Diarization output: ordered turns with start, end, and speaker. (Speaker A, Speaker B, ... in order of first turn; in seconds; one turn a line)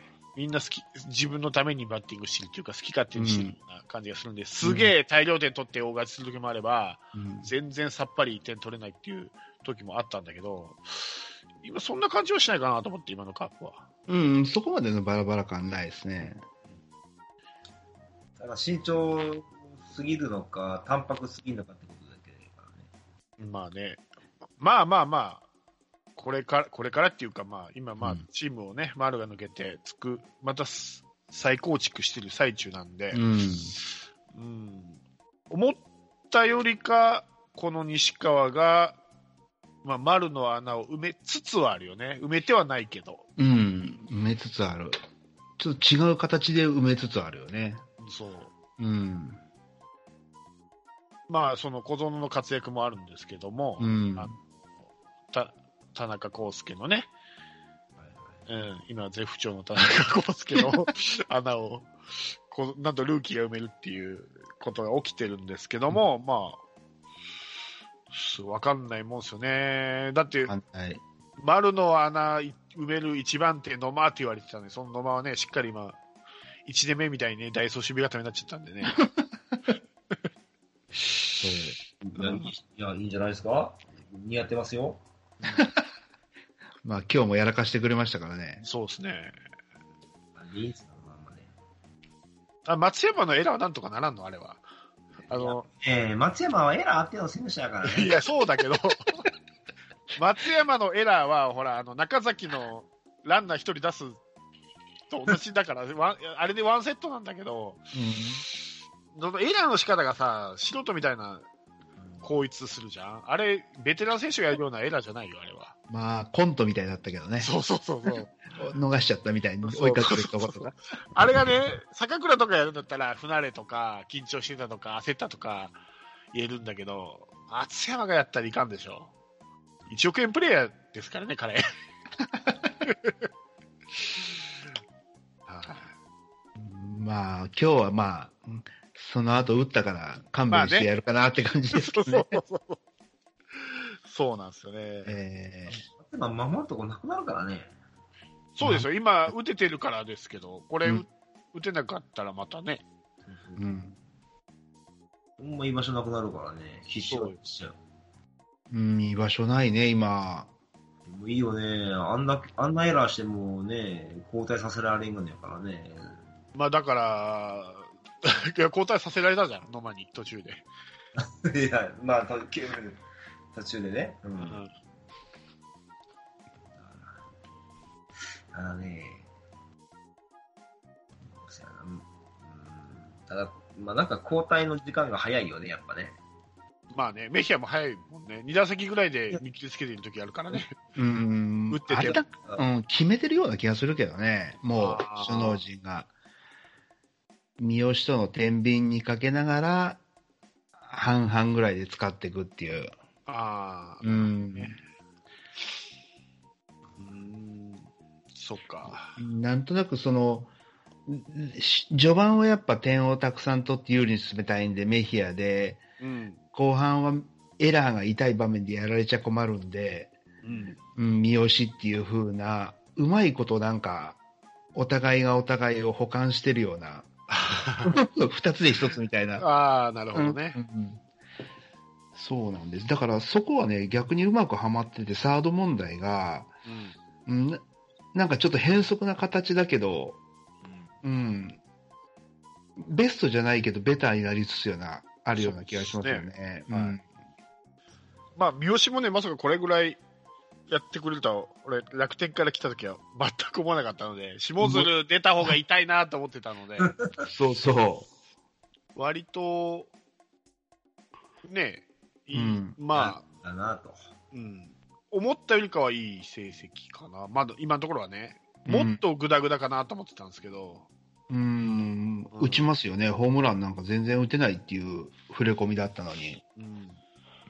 Speaker A: 0.3-13.8
Speaker B: 3.1-3.5
Speaker B: 4.6-4.9
Speaker B: 7.1-7.5
Speaker B: 14.1-16.4
Speaker C: 18.4-22.9
Speaker A: 23.4-24.0
Speaker A: 24.6-25.4
Speaker A: 26.1-33.2
Speaker B: 33.1-33.8
Speaker A: 34.3-35.0
Speaker A: 35.5-39.0
Speaker A: 39.8-43.2
Speaker B: 43.4-45.0
Speaker B: 45.6-47.8
Speaker A: 48.0-48.5
Speaker B: 48.8-49.4
Speaker A: 51.3-54.3
Speaker B: 53.8-54.3
Speaker A: 55.3-57.1
Speaker C: 58.0-58.4
Speaker A: 58.5-61.9
Speaker A: 62.5-66.6
Speaker A: 68.1-70.5
Speaker B: 70.5-71.0
Speaker A: 71.4-76.0
Speaker A: 76.7-79.0
Speaker B: 79.0-79.2
Speaker A: 81.1-81.4
Speaker B: 81.4-81.8
Speaker C: 82.0-85.0
Speaker A: 82.2-82.5
Speaker A: 85.4-85.7
Speaker B: 85.5-85.8
Speaker B: 86.8-88.6
Speaker A: 88.6-89.3
Speaker C: 90.3-91.5
Speaker A: 92.7-94.6
Speaker A: 95.3-95.7
Speaker C: 95.3-98.2
Speaker A: 97.8-99.2
Speaker A: 100.2-104.2
Speaker A: 105.1-107.8
Speaker B: 107.9-108.4
Speaker A: 109.1-111.4
Speaker C: 112.0-112.3
Speaker A: 112.2-115.7
Speaker B: 115.9-117.5
Speaker A: 117.4-118.3
Speaker B: 118.6-120.7
Speaker A: 119.6-125.8
Speaker A: 126.3-129.1
Speaker A: 129.9-131.6
Speaker A: 132.8-133.2
Speaker A: 134.0-134.4
Speaker A: 135.5-135.9
Speaker B: 136.6-142.4
Speaker A: 140.5-140.9
Speaker A: 141.7-142.8
Speaker A: 143.5-145.2
Speaker B: 145.0-145.8
Speaker C: 145.7-147.7
Speaker A: 148.6-152.8
Speaker B: 148.6-148.9
Speaker C: 153.2-153.6
Speaker B: 153.6-153.9
Speaker C: 155.4-157.8
Speaker A: 157.0-157.4
Speaker B: 158.7-160.5
Speaker C: 161.0-166.2
Speaker A: 166.5-170.7
Speaker C: 171.2-173.0
Speaker C: 173.5-174.6
Speaker A: 174.4-174.7
Speaker C: 176.8-177.2
Speaker C: 178.5-179.2
Speaker C: 181.4-186.2
Speaker A: 186.9-190.7
Speaker B: 190.9-196.1
Speaker A: 191.7-192.2
Speaker C: 192.0-192.6
Speaker A: 194.8-195.6
Speaker B: 197.6-200.0
Speaker B: 200.9-202.9
Speaker A: 203.2-204.8
Speaker B: 204.0-204.7
Speaker A: 207.0-209.2
Speaker B: 209.2-210.5
Speaker B: 211.1-215.8
Speaker A: 216.0-216.4
Speaker B: 216.5-220.1
Speaker A: 220.4-220.8
Speaker B: 220.9-224.2
Speaker B: 224.7-227.1
Speaker A: 227.3-228.0
Speaker B: 227.8-229.4
Speaker A: 229.4-230.6
Speaker B: 230.1-231.0
Speaker B: 232.1-236.5
Speaker A: 236.7-236.9
Speaker B: 237.2-237.6
Speaker B: 238.1-240.2
Speaker B: 241.0-241.6
Speaker B: 242.8-247.0
Speaker A: 245.3-247.0
Speaker A: 248.4-250.0
Speaker A: 250.7-256.9
Speaker B: 254.6-254.9
Speaker C: 256.8-257.3
Speaker B: 257.3-258.1
Speaker A: 258.9-259.9
Speaker A: 261.4-263.2
Speaker B: 262.3-262.8
Speaker C: 262.9-264.1
Speaker A: 264.3-270.9
Speaker B: 268.6-269.0
Speaker B: 271.3-276.4
Speaker A: 272.3-272.6
Speaker A: 276.6-277.0